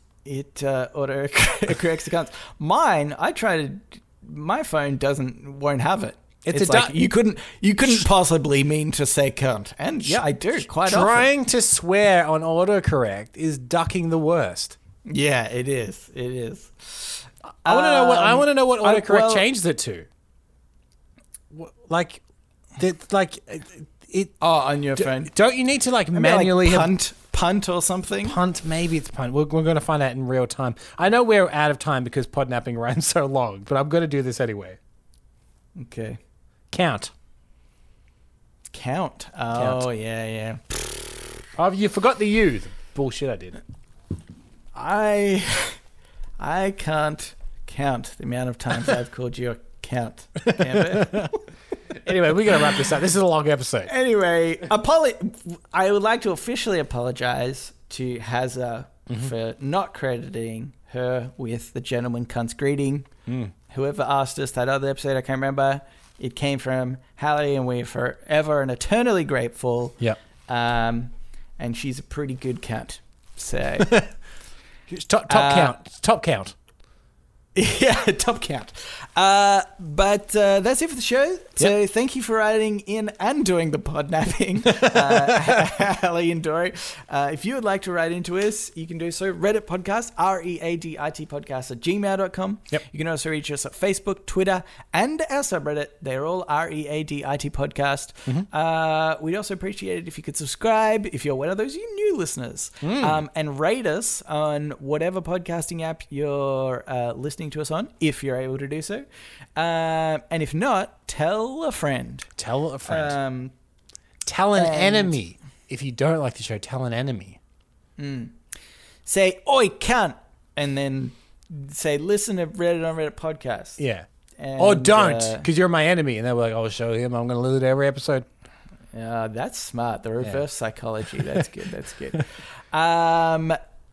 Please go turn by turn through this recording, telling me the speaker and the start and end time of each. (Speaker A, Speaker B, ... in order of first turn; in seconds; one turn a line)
Speaker A: 0.2-11.3
Speaker B: 6.5-7.0
Speaker B: 10.8-14.8
Speaker A: 15.1-19.4
Speaker B: 17.6-20.1
Speaker B: 21.5-22.2
Speaker B: 22.8-24.4
Speaker A: 24.4-25.3
Speaker B: 25.0-26.9
Speaker A: 26.1-28.4
Speaker B: 28.2-34.8
Speaker A: 35.8-36.2
Speaker B: 36.7-37.1
Speaker A: 38.7-41.3
Speaker B: 39.6-39.9
Speaker B: 41.6-43.6
Speaker A: 44.7-45.8
Speaker A: 46.4-51.4
Speaker B: 50.5-51.3
Speaker B: 52.0-53.9
Speaker A: 52.5-52.8
Speaker A: 53.9-63.1
Speaker B: 63.3-63.5
Speaker A: 63.7-74.0
Speaker B: 73.9-74.2
Speaker B: 74.9-76.5
Speaker A: 75.3-75.8
Speaker A: 77.5-112.3
Speaker B: 84.8-85.6
Speaker B: 102.8-103.2
Speaker B: 112.4-113.2
Speaker A: 112.9-113.5
Speaker B: 114.2-117.4
Speaker A: 114.6-115.1
Speaker A: 118.0-118.4
Speaker A: 119.0-123.8
Speaker B: 123.8-128.3
Speaker A: 124.4-125.5
Speaker A: 128.9-133.6